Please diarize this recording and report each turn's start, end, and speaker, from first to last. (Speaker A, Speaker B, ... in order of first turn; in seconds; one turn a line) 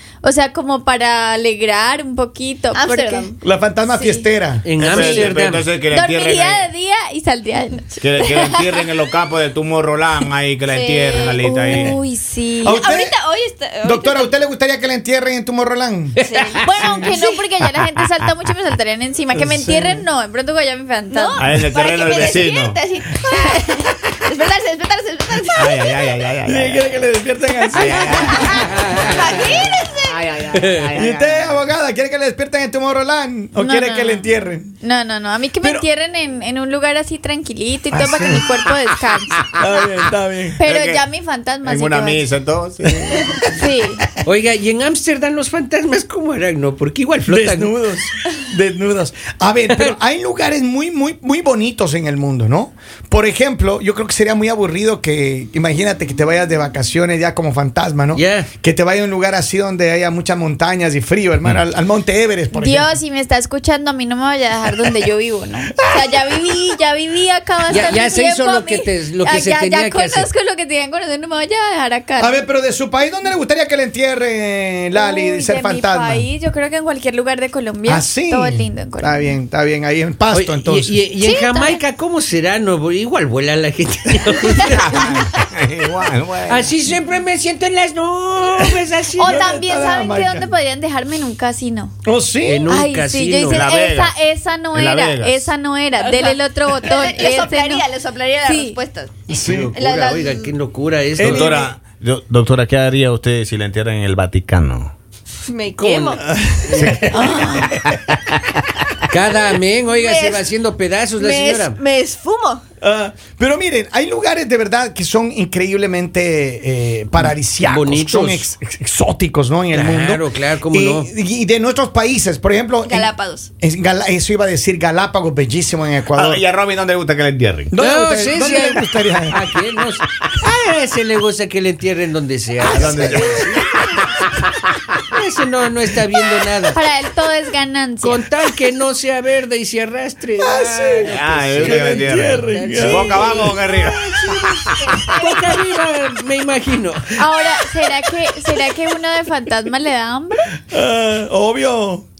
Speaker A: 0.2-3.3
Speaker B: 2.7-3.4
Speaker C: 3.4-4.7
Speaker A: 3.9-4.3
Speaker D: 4.6-5.7
Speaker E: 4.8-6.7
Speaker A: 4.9-5.3
Speaker A: 5.9-8.7
Speaker E: 8.0-12.0
Speaker B: 10.7-11.5
Speaker A: 11.1-12.8
Speaker C: 12.6-13.2
Speaker B: 12.7-14.3
Speaker C: 13.8-16.2
Speaker D: 16.2-17.0
Speaker B: 16.2-17.5
Speaker A: 16.7-21.5
Speaker C: 16.8-17.1
Speaker C: 19.3-20.0
Speaker B: 21.1-26.2
Speaker E: 21.4-22.8
Speaker E: 25.6-26.9
Speaker C: 26.4-28.9
Speaker E: 27.8-29.2
Speaker B: 28.4-30.3
Speaker D: 28.7-29.4
Speaker E: 30.1-31.6
Speaker D: 30.4-30.9
Speaker C: 30.9-34.7
Speaker A: 33.6-34.3
Speaker A: 34.8-39.5
Speaker C: 35.6-35.9
Speaker C: 37.9-38.4
Speaker C: 39.5-40.6
Speaker A: 40.6-42.2
Speaker E: 40.6-41.0
Speaker E: 41.7-43.5
Speaker C: 43.0-43.3
Speaker A: 43.5-44.0
Speaker D: 44.2-47.8
Speaker C: 47.2-62.9
Speaker D: 49.7-49.9
Speaker D: 58.1-58.5
Speaker A: 62.5-72.4
Speaker C: 65.8-66.5
Speaker D: 67.7-70.3
Speaker C: 72.2-76.3
Speaker A: 74.9-79.3
Speaker C: 77.8-81.0
Speaker D: 80.3-85.1
Speaker A: 81.2-81.8
Speaker E: 84.7-86.7
Speaker D: 86.5-89.4
Speaker C: 89.2-90.5
Speaker A: 89.2-91.9
Speaker C: 92.0-92.7
Speaker D: 92.4-93.6
Speaker A: 92.7-97.9
Speaker E: 93.5-94.2
Speaker E: 94.7-95.5
Speaker B: 96.0-100.5
Speaker A: 98.4-98.8
Speaker C: 99.3-99.7
Speaker D: 99.4-101.6
Speaker C: 101.2-101.7
Speaker E: 101.2-104.9
Speaker B: 105.4-106.2
Speaker D: 105.8-107.2
Speaker C: 106.3-108.2
Speaker E: 106.7-107.4
Speaker D: 109.1-111.8
Speaker B: 109.9-110.5
Speaker B: 111.2-112.6
Speaker C: 112.8-126.4
Speaker D: 117.2-118.5
Speaker D: 119.7-121.1
Speaker B: 122.8-123.5
Speaker E: 126.1-127.7
Speaker C: 127.7-129.4
Speaker D: 127.8-133.7
Speaker C: 132.6-133.7
Speaker E: 132.8-133.9
Speaker D: 135.1-136.8
Speaker A: 136.7-138.2
Speaker D: 138.0-143.6
Speaker C: 140.4-144.3
Speaker E: 141.1-144.0
Speaker B: 143.4-145.6
Speaker D: 145.1-147.0
Speaker A: 147.2-150.5
Speaker C: 150.6-152.0